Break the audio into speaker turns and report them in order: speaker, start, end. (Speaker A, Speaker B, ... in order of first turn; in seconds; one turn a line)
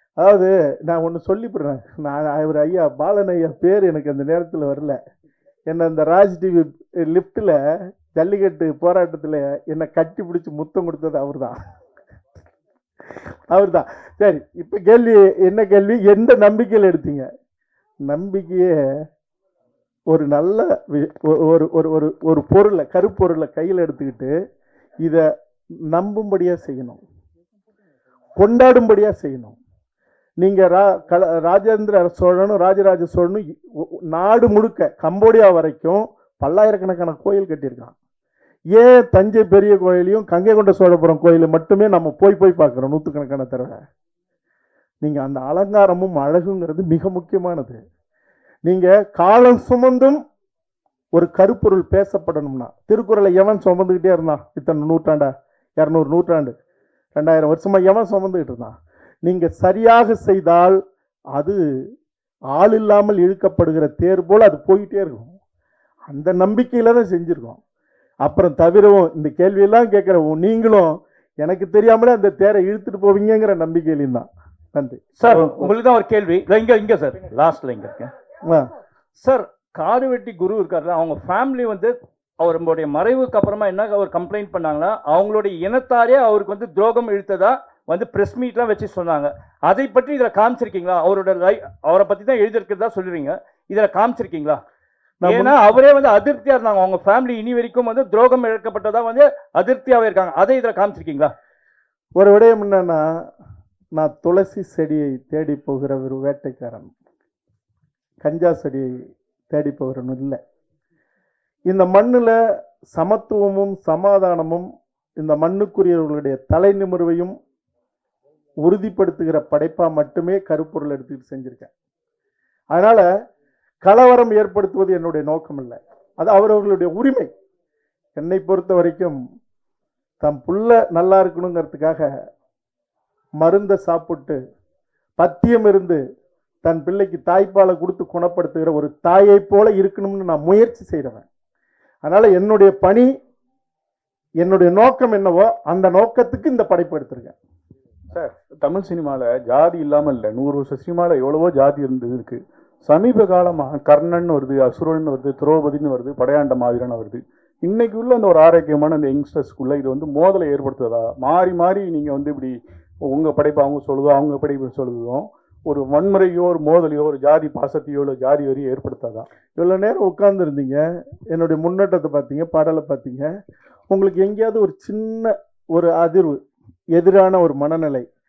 Speaker A: 0.2-5.0
Speaker A: 5.7-7.6
Speaker A: 8.1-11.6
Speaker A: 13.5-17.3
Speaker A: 18.1-18.7
Speaker A: 20.1-24.3
Speaker A: 25.9-27.0
Speaker A: 28.4-29.6
Speaker A: 30.4-33.4
Speaker A: 34.1-37.9
Speaker A: 38.8-43.8
Speaker A: 45.0-47.8
Speaker A: 48.6-50.2
Speaker A: 51.1-56.5
Speaker A: 57.1-60.8
Speaker A: 62.5-65.3
Speaker A: 66.1-67.6
Speaker A: 68.2-75.7
Speaker B: 75.2-78.1
Speaker B: 79.2-94.6
Speaker A: 95.2-95.6
Speaker B: 95.2-101.3
Speaker A: 102.2-103.0
Speaker A: 104.0-106.9
Speaker A: 108.2-109.0
Speaker A: 109.5-110.4
Speaker A: 111.7-112.4
Speaker A: 112.9-114.7
Speaker A: 115.2-117.4
Speaker A: 118.6-121.7
Speaker A: 122.7-123.0
Speaker A: 123.8-127.3
Speaker A: 128.2-129.2
Speaker A: 130.2-132.1
Speaker A: 133.4-134.4
Speaker A: 135.2-136.0
Speaker A: 136.6-141.2
Speaker A: 142.1-143.1
Speaker A: 144.4-147.4
Speaker C: 148.1-169.2
Speaker A: 169.6-173.3
Speaker A: 173.9-176.4
Speaker A: 176.9-178.1